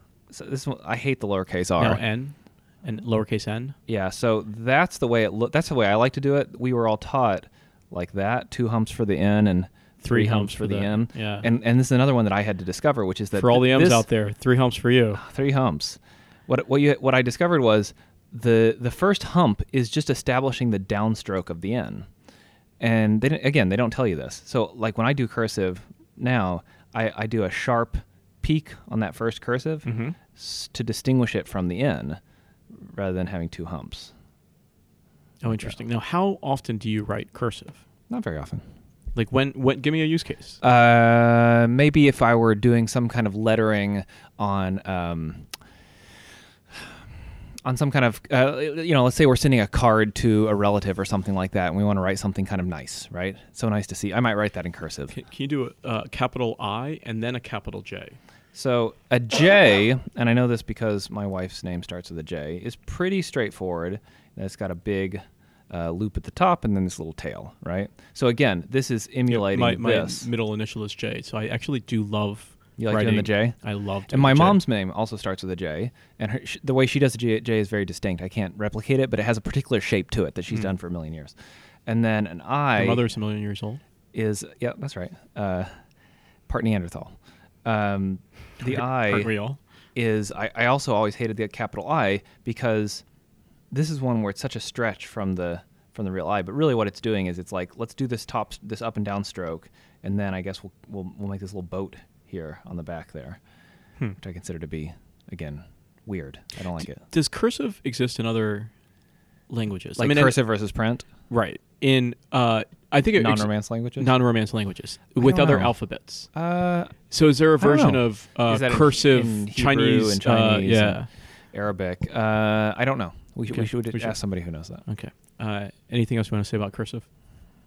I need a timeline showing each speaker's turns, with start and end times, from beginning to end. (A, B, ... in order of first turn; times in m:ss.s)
0:00.3-0:02.0 A
0:01.8-0:03.8 B
0:03.9-0:14.1 A
0:10.0-0:11.5 B
0:13.3-0:15.2 B
0:15.2-0:22.1 A
0:22.8-0:32.2 A
0:29.8-0:30.2 B
0:32.8-0:34.1 A
0:35.4-0:37.8 B
0:38.1-0:38.6 A
0:39.1-0:40.6 B
0:40.6-0:45.4 A
0:47.6-0:55.1 A
0:55.1-0:58.2 B
0:58.5-1:10.3 A
1:09.3-1:14.6 B
1:12.8-1:13.6 A
1:14.1-1:21.3 A
1:21.8-1:23.0 A
1:22.8-1:23.8 B
1:24.1-1:25.7 A
1:26.5-1:27.1 A
1:27.6-1:29.3 A
1:28.6-1:29.6 B
1:29.9-1:33.0 A
1:33.7-1:43.4 A
1:44.2-1:47.0 A
1:46.8-1:48.7 B
1:49.5-1:50.4 B
1:50.0-1:51.0 A
1:51.3-1:56.3 B
1:53.2-1:54.1 A
1:55.2-1:55.7 A
1:56.3-1:57.0 A
1:57.1-2:01.1 B
1:57.6-2:01.0 A
2:01.5-2:04.8 A
2:03.5-2:04.2 B
2:04.9-2:07.0 B